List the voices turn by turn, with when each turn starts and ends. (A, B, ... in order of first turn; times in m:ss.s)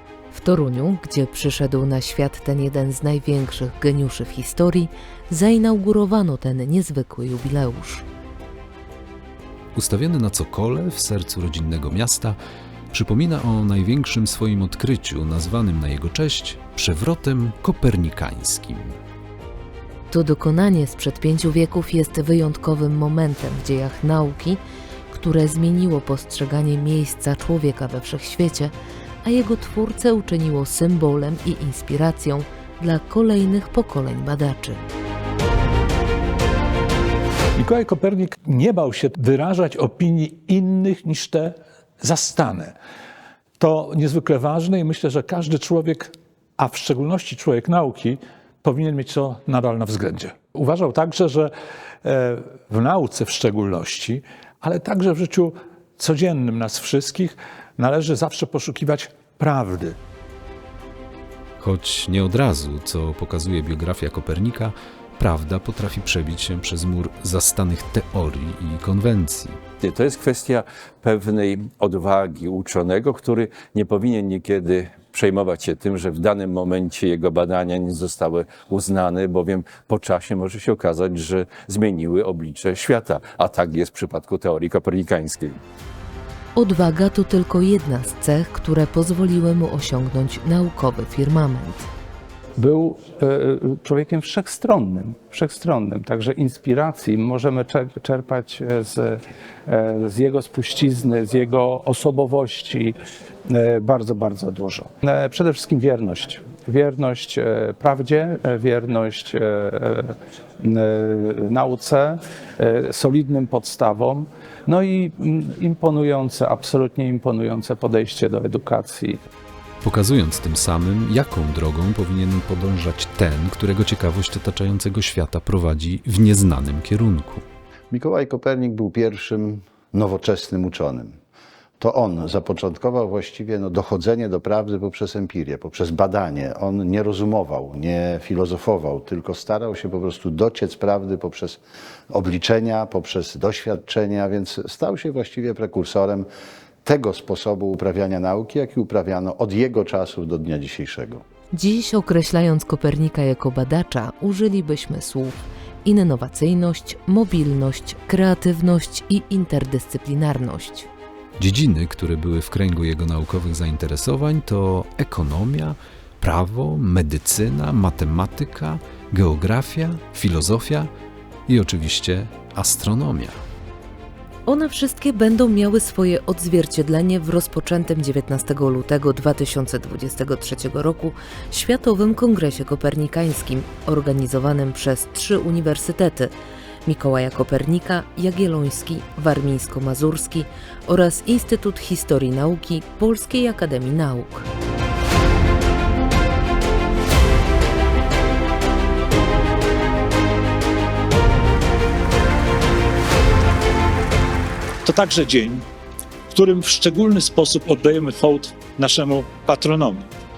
0:00.3-0:08.0 A
0:09.7-0:12.4 B
0:12.9-0:19.0 B
0:20.1-0:34.8 A
0:37.6-0:42.7 C
0:43.6-0:51.5 C
0:52.0-1:00.0 C
1:01.6-1:09.6 B
1:09.8-1:25.6 D
1:26.5-1:31.9 A
1:32.6-1:42.9 E
1:43.5-1:59.2 E
1:59.8-2:07.4 B
2:07.9-2:11.2 F
2:11.8-2:26.3 F
2:26.8-2:31.2 F
2:31.5-2:40.9 A
2:41.4-2:50.9 B
2:51.5-2:53.4 B
2:54.4-3:14.5 A
3:24.8-3:25.6 G
3:26.3-3:30.0 G